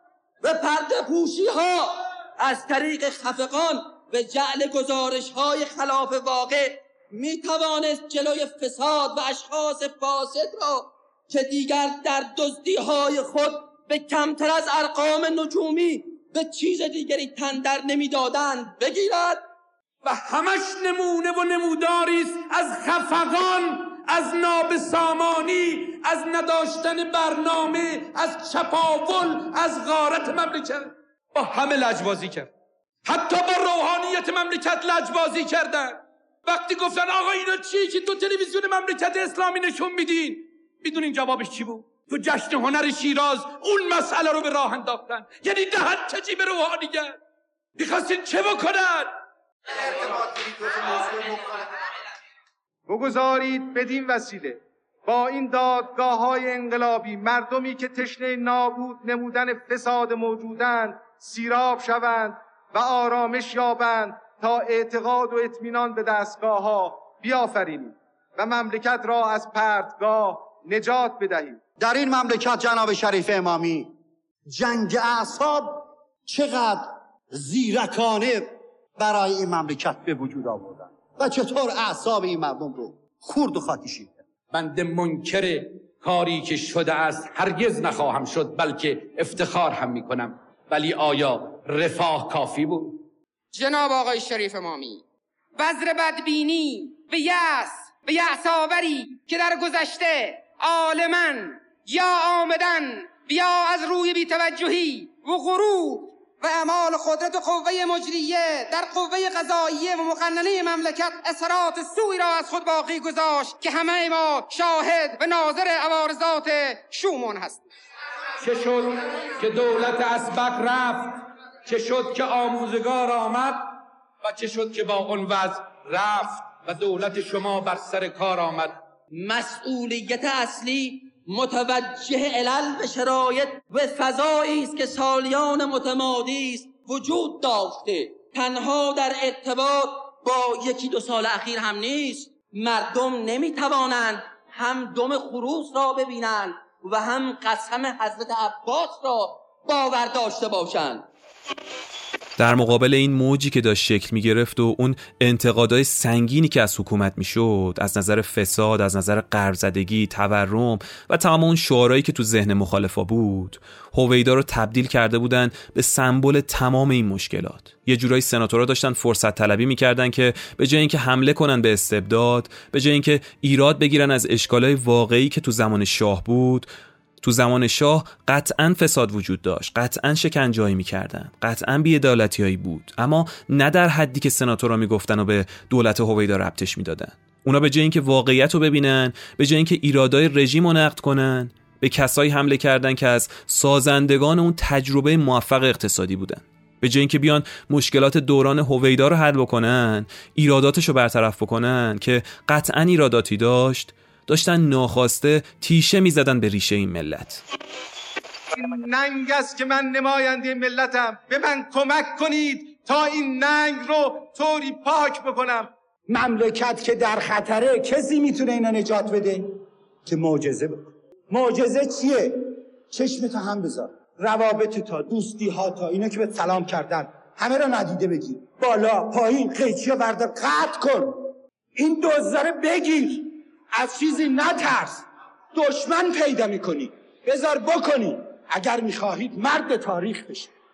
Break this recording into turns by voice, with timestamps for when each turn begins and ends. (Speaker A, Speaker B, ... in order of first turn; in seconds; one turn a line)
Speaker A: 0.4-19.4
Speaker B: 20.0-32.5
Speaker B: 33.0-47.2
Speaker B: 47.8-49.1
Speaker C: 49.8-51.6
Speaker C: 52.9-71.6
Speaker D: 71.8-73.9
Speaker D: 74.5-84.2
Speaker B: 84.5-93.0
Speaker E: 93.5-95.0
Speaker E: 95.6-117.7
Speaker B: 118.4-128.8
Speaker A: 129.1-151.1
Speaker F: 152.4-176.7
Speaker F: 177.2-207.4
Speaker C: 208.5-215.7
Speaker G: 216.1-219.5
Speaker G: 220.1-240.5